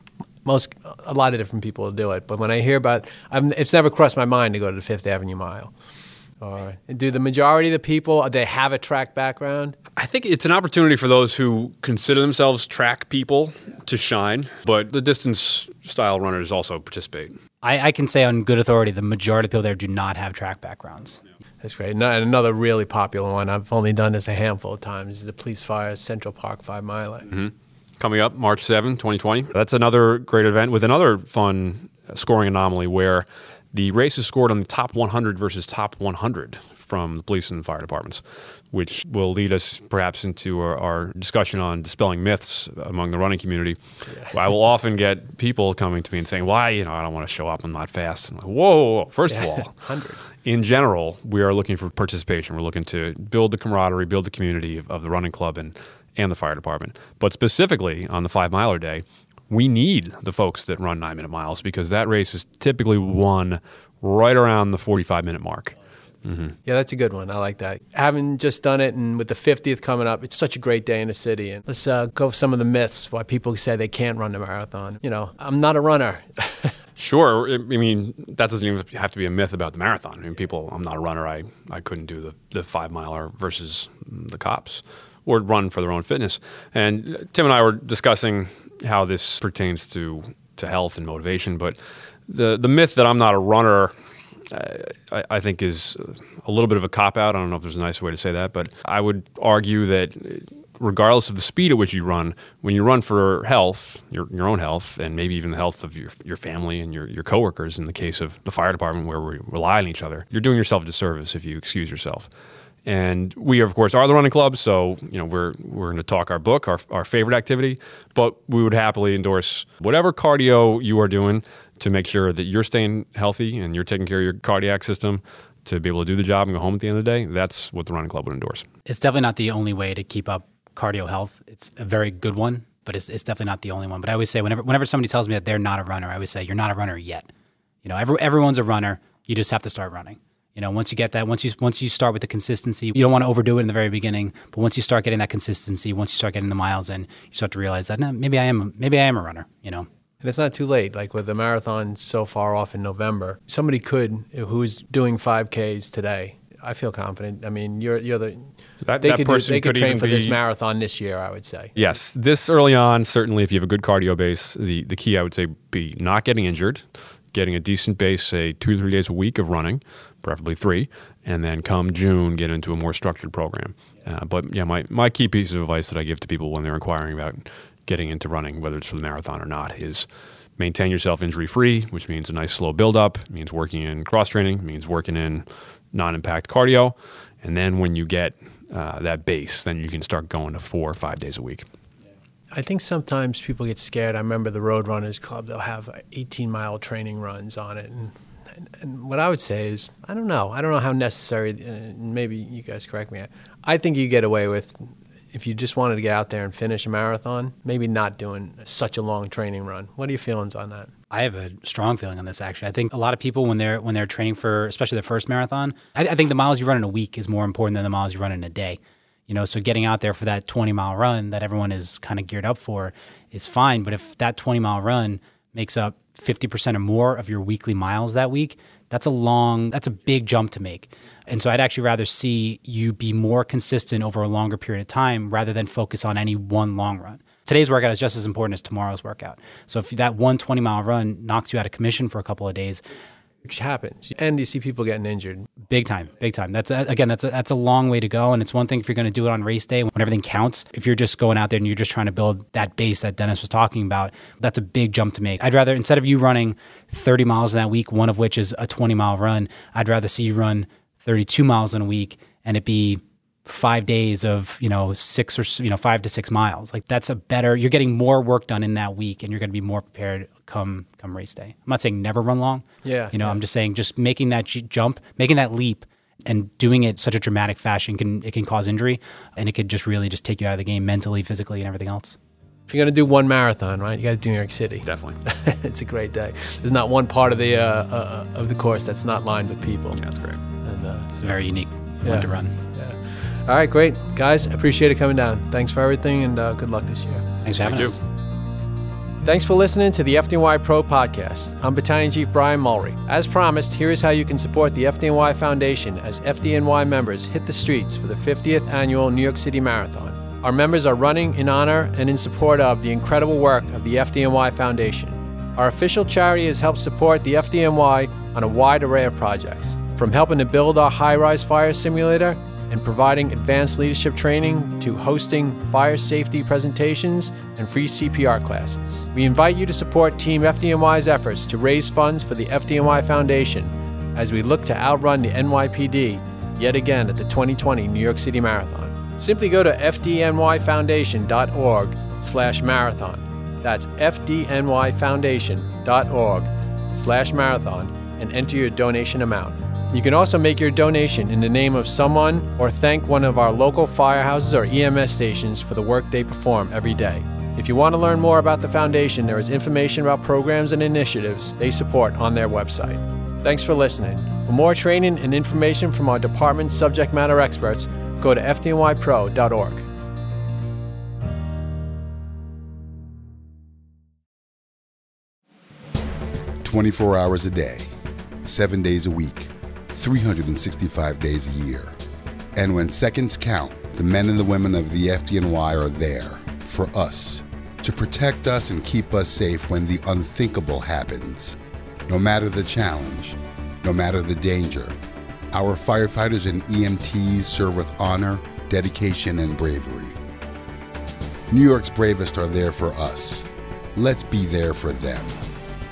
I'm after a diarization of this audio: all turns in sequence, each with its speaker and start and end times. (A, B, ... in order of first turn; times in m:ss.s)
0:00.4-0:05.7 A
0:06.4-0:09.8 A
0:10.0-0:17.3 B
0:17.6-0:21.2 C
0:21.6-0:27.3 A
0:27.3-0:49.7 B
0:44.1-0:44.3 A
0:49.3-0:50.2 A
0:50.4-1:06.5 B
1:06.6-1:16.8 A
1:17.0-1:31.8 B
1:32.3-1:33.9 B
1:34.5-1:52.3 B
1:52.8-2:08.6 B
2:08.8-2:17.3 C
2:17.8-2:29.9 C
2:30.2-2:41.7 A
2:38.8-2:40.4 B
2:41.8-3:11.6 B
3:12.5-3:30.9 A
3:31.1-4:02.8 C
4:03.4-4:05.5 A
4:05.7-4:42.2 C
4:32.8-4:33.4 A
4:42.7-4:50.0 A
4:44.8-4:45.2 B
4:49.9-4:50.4 B
4:50.6-4:51.1 A
4:51.1-4:52.5 C
4:52.0-4:57.3 A
4:57.4-4:58.0 C
4:57.6-4:58.0 B
4:59.2-6:09.8 A
6:16.6-6:17.9 D
6:18.4-6:21.9 D
6:22.6-6:34.9 D
6:35.5-6:40.2 D
6:41.5-6:45.3 D